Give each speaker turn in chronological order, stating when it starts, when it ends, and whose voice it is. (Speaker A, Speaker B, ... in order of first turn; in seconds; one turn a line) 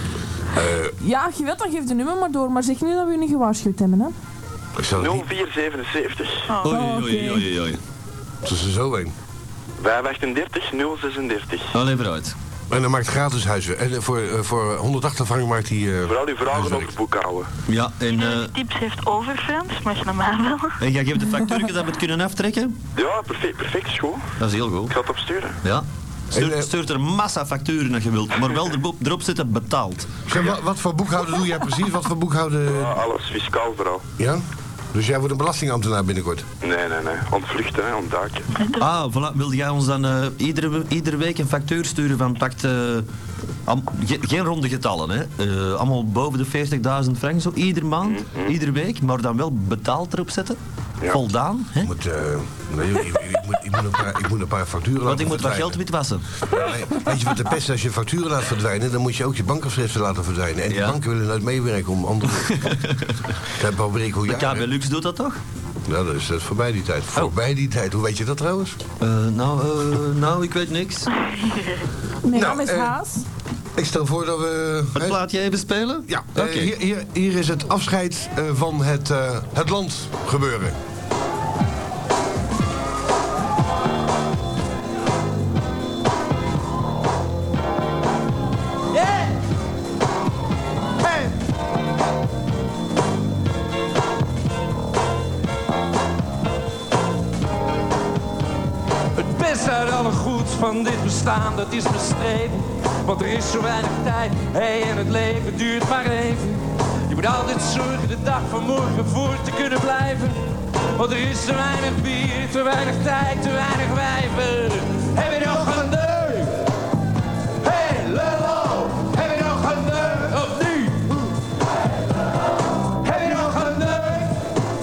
Speaker A: 0.5-0.9
Speaker B: 1.0-4.1
Speaker A: 4.8-5.3
Speaker C: 5.0-6.5
Speaker D: 6.6-7.8
Speaker B: 6.7-7.5
Speaker A: 8.4-9.1
Speaker C: 9.8-11.7
Speaker D: 11.7-12.3
Speaker A: 12.7-16.9
Speaker C: 16.1-17.5
Speaker D: 17.7-18.5
Speaker E: 18.1-20.8
Speaker D: 20.8-22.8
Speaker C: 23.0-24.2
Speaker D: 24.4-25.0
Speaker C: 24.9-25.6
Speaker D: 25.6-30.2
Speaker A: 26.3-26.7
Speaker A: 30.3-33.0
Speaker C: 32.7-34.0
Speaker A: 34.2-36.5
Speaker C: 36.6-38.5
Speaker E: 38.5-38.9
Speaker D: 38.8-43.1
Speaker D: 43.7-51.9
Speaker C: 48.0-48.5
Speaker A: 51.8-55.8
Speaker D: 55.1-56.3
Speaker A: 56.4-62.8
Speaker D: 60.7-61.0
Speaker D: 62.4-63.3
Speaker A: 63.5-64.7
Speaker D: 64.3-65.4
Speaker A: 65.9-68.8
Speaker D: 69.0-71.1
Speaker B: 72.2-73.3
Speaker A: 72.3-73.0
Speaker A: 73.8-75.2
Speaker D: 75.0-76.7
Speaker A: 76.1-80.8
Speaker F: 99.2-110.4
Speaker F: 111.0-116.6
Speaker F: 117.6-121.2
Speaker F: 123.0-124.3